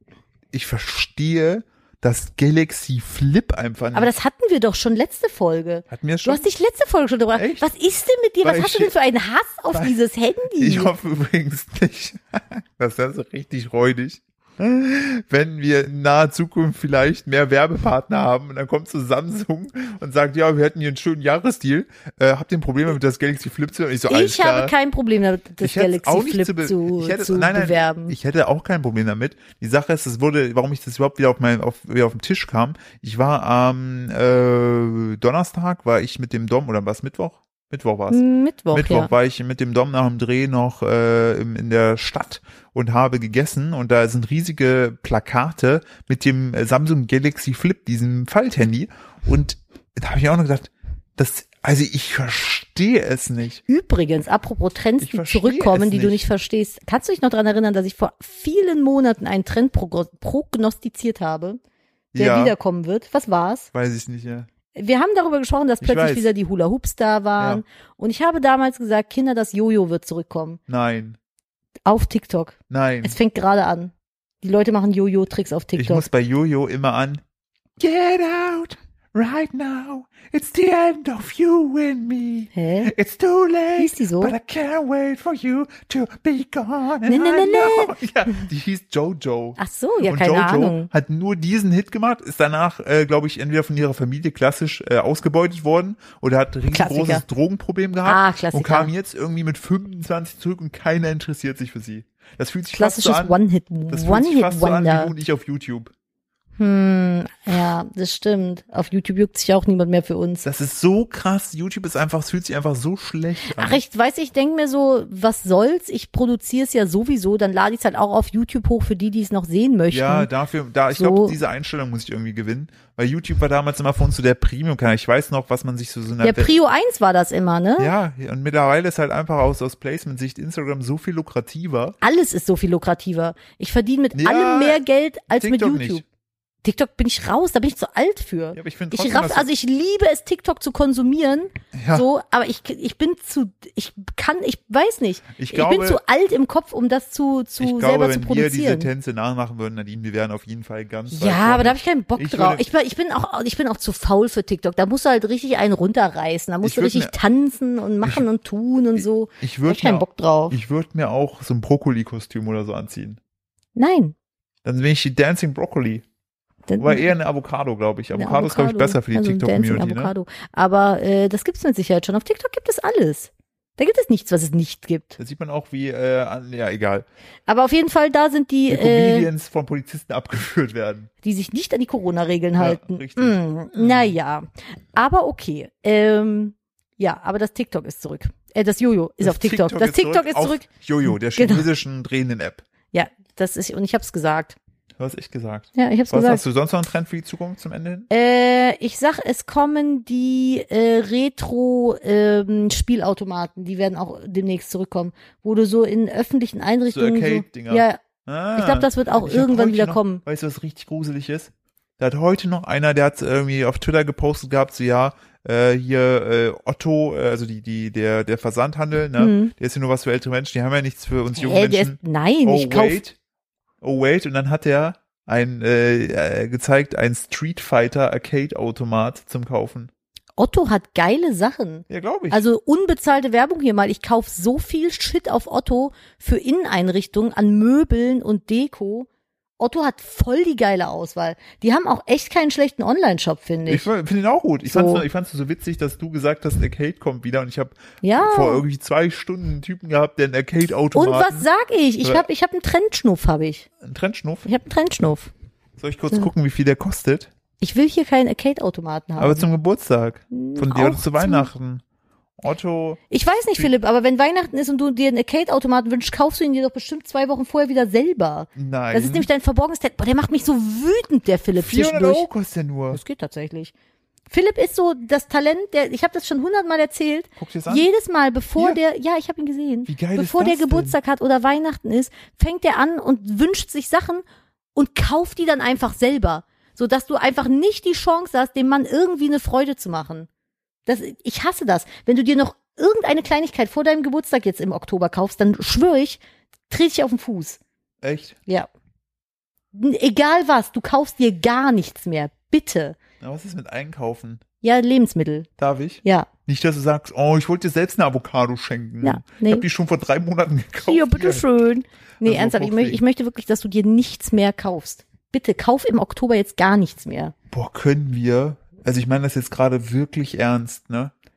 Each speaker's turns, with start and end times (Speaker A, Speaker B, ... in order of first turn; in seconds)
Speaker A: 0.5-4.1, 5.9-6.5, 7.3-7.7, 8.4-8.9, 9.7-10.0, 10.6-24.7, 25.6-53.6, 55.0-56.2, 62.1-62.5, 63.7-64.5, 65.8-66.3, 67.4-67.6, 70.7-71.2, 72.7-73.2, 75.8-77.2, 77.8-103.4, 103.9-105.9, 110.4-113.8, 119.9-126.5, 127.8-132.0, 134.1-134.8, 135.4-136.0, 138.5-139.5, 141.7-142.1, 145.4-146.0, 147.6-152.6, 156.6-157.1, 159.0-163.2, 164.6-166.0, 166.8-170.1, 175.2-177.1, 178.7-181.1, 182.6-184.1, 189.2-192.6, 195.0-198.1, 206.9-223.2, 223.8-229.9, 231.9-232.4, 243.7-251.5, 253.8-254.5, 255.8-257.3, 259.2-261.8, 262.4-263.0, 268.6-269.3, 271.6-273.0, 277.4-277.9, 279.9-281.0, 298.0-298.4, 303.2-304.4, 305.6-311.4, 312.2-313.0, 317.5-321.1
Speaker B: 3.9-10.9, 24.1-28.1, 38.1-39.1, 53.7-61.6, 62.1-63.7, 64.7-70.6, 71.8-76.0, 82.5-82.9, 83.8-84.3, 87.0-88.0, 89.6-90.9, 96.7-97.2, 98.0-98.9, 102.7-105.1, 106.6-110.4, 113.5-120.3, 120.9-121.4, 126.2-127.9, 132.0-136.0, 136.6-148.9, 151.1-160.6, 163.8-164.1, 166.7-167.1, 168.1-175.2, 177.5-179.3, 181.2-191.7, 192.9-194.6, 195.7-196.4, 198.1-208.0, 208.5-210.2, 219.2-219.5, 221.3-223.0, 230.4-239.1, 239.6-243.9, 244.7-245.0, 248.0-248.6, 250.9-253.7, 254.4-255.3, 257.6-259.5, 260.3-261.5, 263.1-272.2, 272.9-273.7, 274.3-284.2, 284.7-290.3, 290.9-297.6, 299.7-303.0, 304.6-305.5, 306.0-306.3, 309.0-309.6, 310.8-317.3